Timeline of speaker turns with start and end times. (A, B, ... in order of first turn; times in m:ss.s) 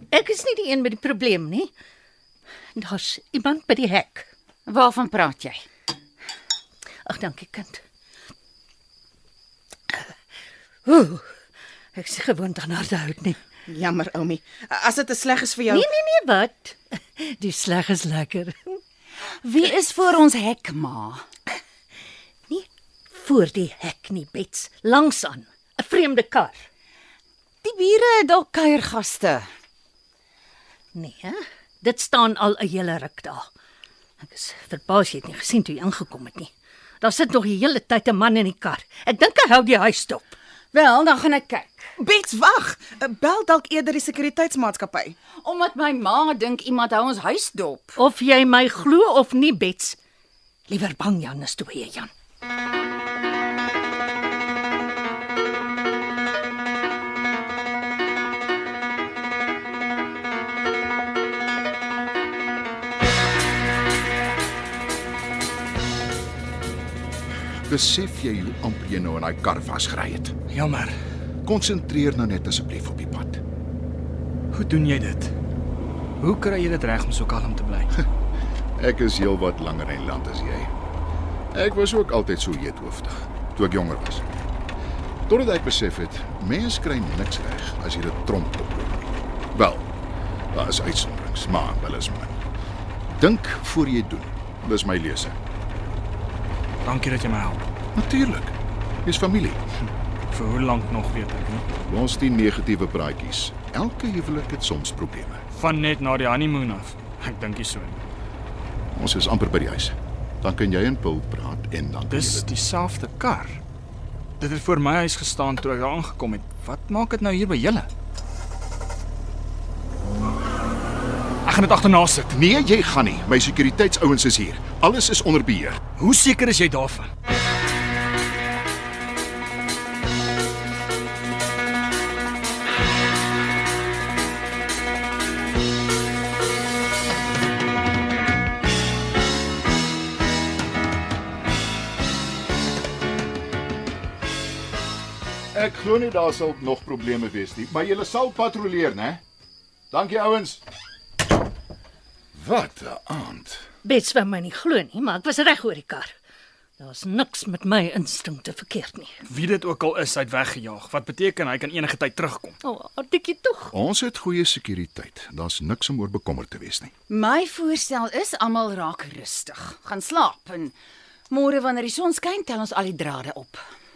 0:00.1-0:01.7 A
0:02.8-0:04.3 A
0:04.7-0:05.6 B
0:07.0-0:07.8 A
0:10.8-0:11.3 A
0:12.0-0:13.4 A
0:13.7-0:15.8 C
0:15.7-0:18.8 A
0:19.4-0:21.2 B
0:22.5-0:26.6 A
0:27.6-0:29.5 B
0:30.9-0:33.5 A
0:34.2-0:40.3 A
0:40.7-0:41.9 B
0:42.0-0:45.2 C
0:45.3-0:48.0 B
0:48.0-0:50.0 A
0:50.7-0:52.1 A
1:07.7-1:10.4 D
1:10.5-1:10.9 E
1:11.4-1:13.4 D
1:14.5-1:15.3 E
1:16.2-1:18.0 E
1:18.8-1:20.7 D
1:21.5-1:24.2 D
1:25.3-1:29.9 D
1:30.5-1:32.4 D
1:33.1-1:35.4 D
1:36.8-1:37.6 E
1:37.9-1:39.6 D
1:40.3-1:41.7 E
1:41.8-1:45.4 D
1:45.5-1:48.0 E
1:48.9-1:52.5 D
1:52.1-1:53.6 E
1:54.4-1:57.9 E
2:01.4-2:02.3 E
2:02.3-2:05.8 D
2:06.0-2:07.1 E
2:25.5-2:29.2 D
2:29.9-2:30.6 D
2:32.3-2:33.6 D
2:33.8-2:36.1 A
2:36.8-2:39.2 A
2:39.3-2:42.6 E
2:42.6-2:43.7 A
2:43.7-2:46.9 D
2:47.1-2:50.7 B
2:51.3-2:53.6 B